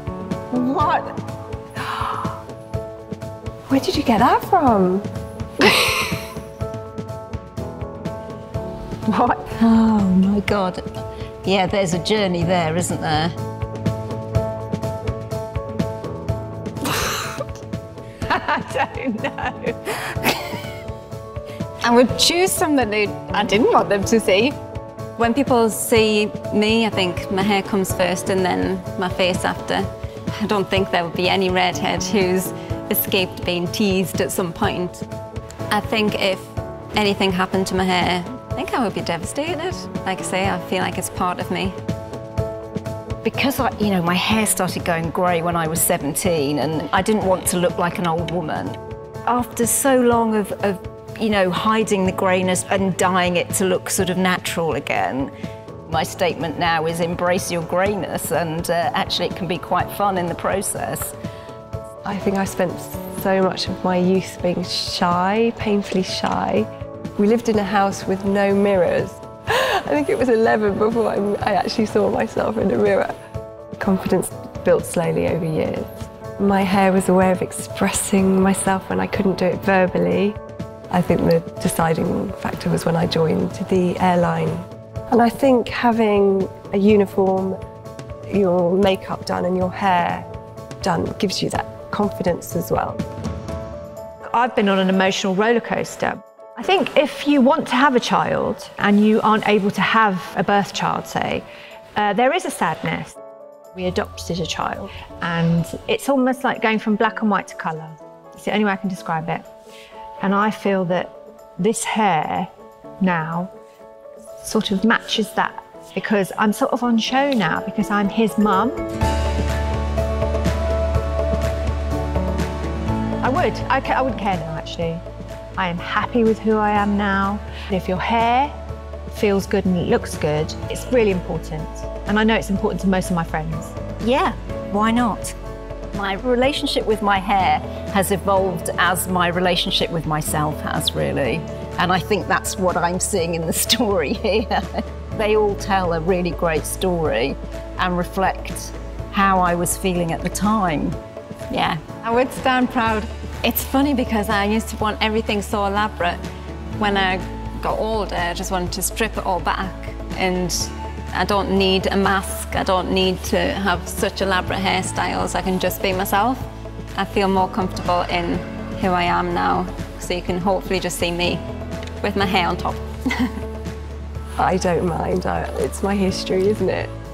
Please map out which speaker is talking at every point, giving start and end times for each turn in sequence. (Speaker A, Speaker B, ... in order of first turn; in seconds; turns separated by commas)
Speaker A: 0.5-1.2, Speaker B: 3.7-5.1, Speaker B: 5.6-6.1, Speaker A: 9.3-10.8, Speaker A: 11.4-13.3, Speaker C: 18.3-20.0, Speaker D: 21.8-24.6, Speaker D: 25.2-35.1, Speaker D: 35.7-41.8, Speaker A: 43.2-55.3, Speaker A: 55.9-61.1, Speaker B: 62.0-73.2, Speaker B: 73.8-80.4, Speaker B: 80.9-87.6, Speaker B: 88.3-90.3, Speaker B: 90.8-93.0, Speaker C: 94.3-101.5, Speaker C: 102.0-103.2, Speaker C: 103.7-109.5, Speaker C: 110.2-113.5, Speaker C: 114.4-118.9, Speaker C: 123.2-125.0, Speaker C: 125.6-128.5, Speaker C: 129.1-133.8, Speaker A: 134.0-135.3, Speaker A: 135.9-151.0, Speaker D: 151.5-156.2, Speaker D: 156.8-171.4, Speaker D: 172.0-173.4, Speaker B: 174.4-176.9